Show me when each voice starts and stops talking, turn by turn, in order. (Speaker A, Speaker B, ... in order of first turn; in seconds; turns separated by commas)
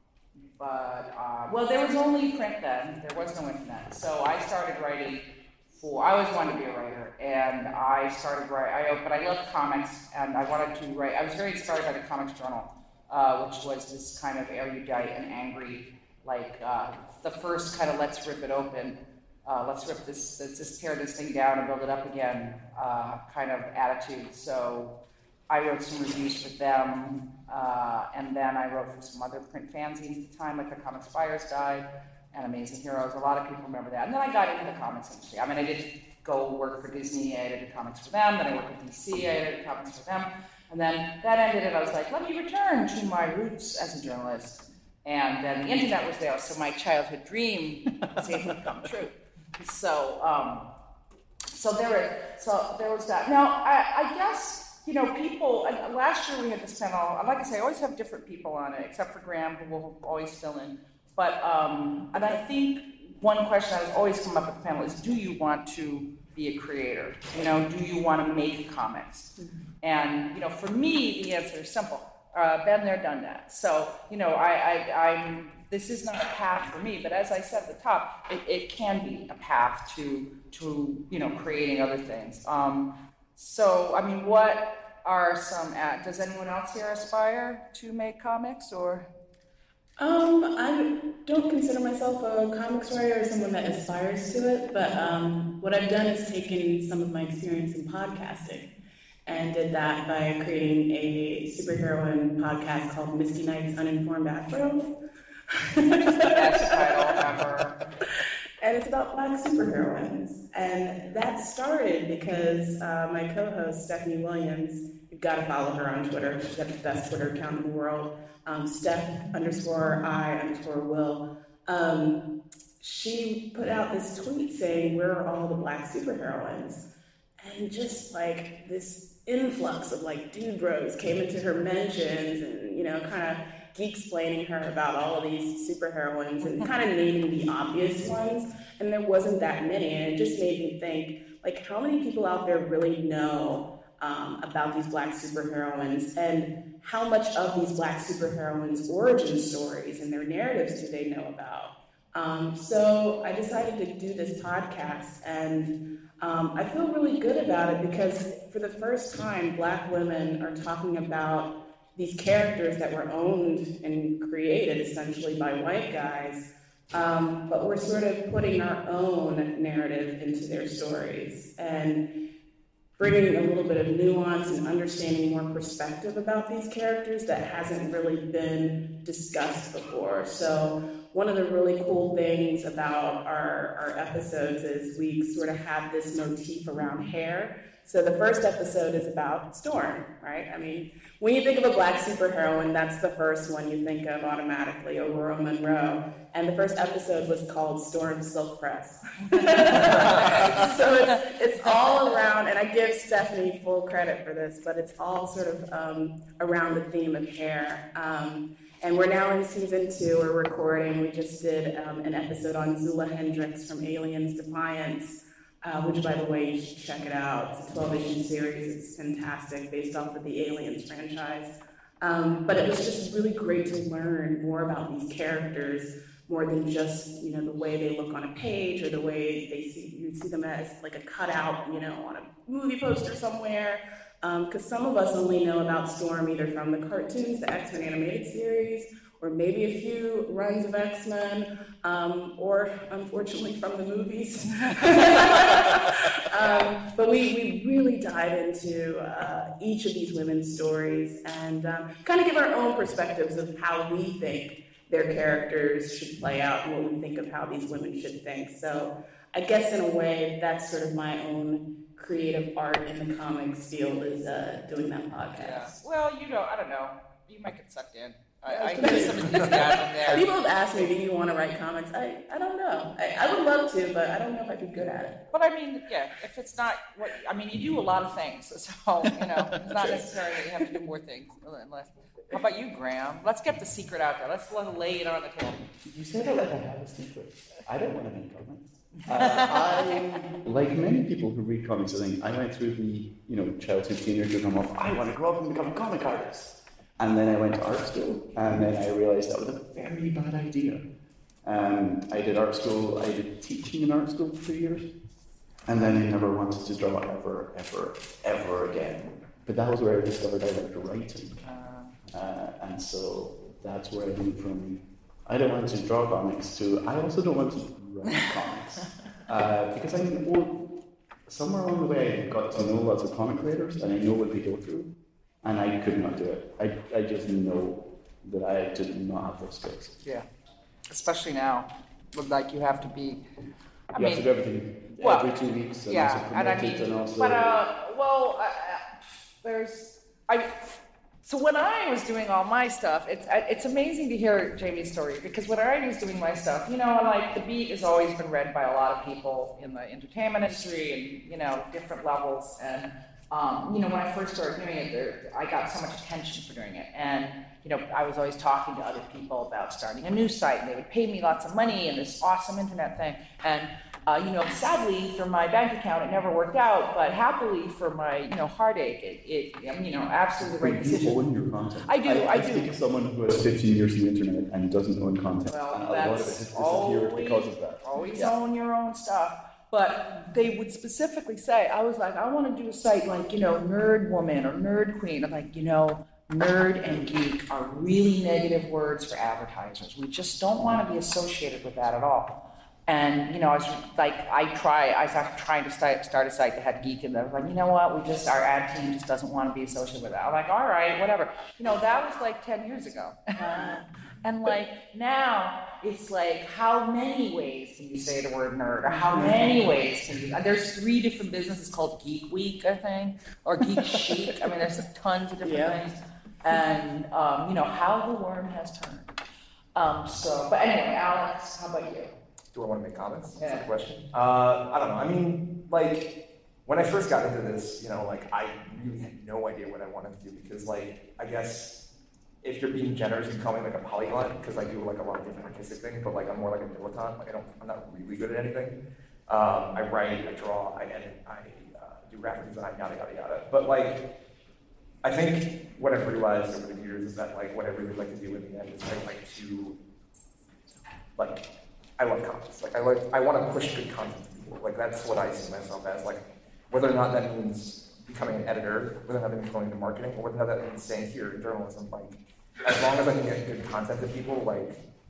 Speaker A: 0.6-24.9, Speaker A: 25.5-50.7, Speaker B: 48.2-48.7, Speaker A: 51.5-89.1, Speaker C: 90.0-98.7, Speaker C: 99.2-104.9, Speaker C: 105.5-107.2, Speaker A: 106.3-107.8, Speaker C: 108.6-122.2, Speaker C: 122.8-126.8, Speaker C: 127.4-172.0, Speaker C: 173.0-265.8, Speaker A: 201.6-202.1, Speaker A: 265.4-270.9, Speaker C: 268.5-275.2, Speaker A: 275.3-285.6, Speaker B: 279.2-280.2, Speaker B: 285.8-300.8, Speaker A: 288.9-290.2, Speaker B: 301.4-304.9, Speaker B: 305.6-311.4, Speaker A: 311.4-311.9, Speaker B: 312.1-329.9, Speaker A: 330.9-333.2, Speaker A: 333.9-334.3, Speaker B: 333.9-337.6, Speaker A: 334.9-340.5, Speaker A: 341.2-371.2, Speaker B: 370.4-378.3, Speaker A: 371.8-372.7, Speaker A: 375.4-392.4, Speaker A: 392.9-419.1, Speaker C: 403.4-403.8, Speaker C: 408.9-409.7, Speaker C: 415.4-415.8, Speaker A: 419.7-422.1, Speaker D: 422.5-426.1, Speaker A: 423.4-423.7, Speaker D: 426.6-431.8, Speaker D: 432.4-444.0, Speaker D: 445.0-449.8, Speaker D: 451.1-451.4, Speaker D: 452.0-464.8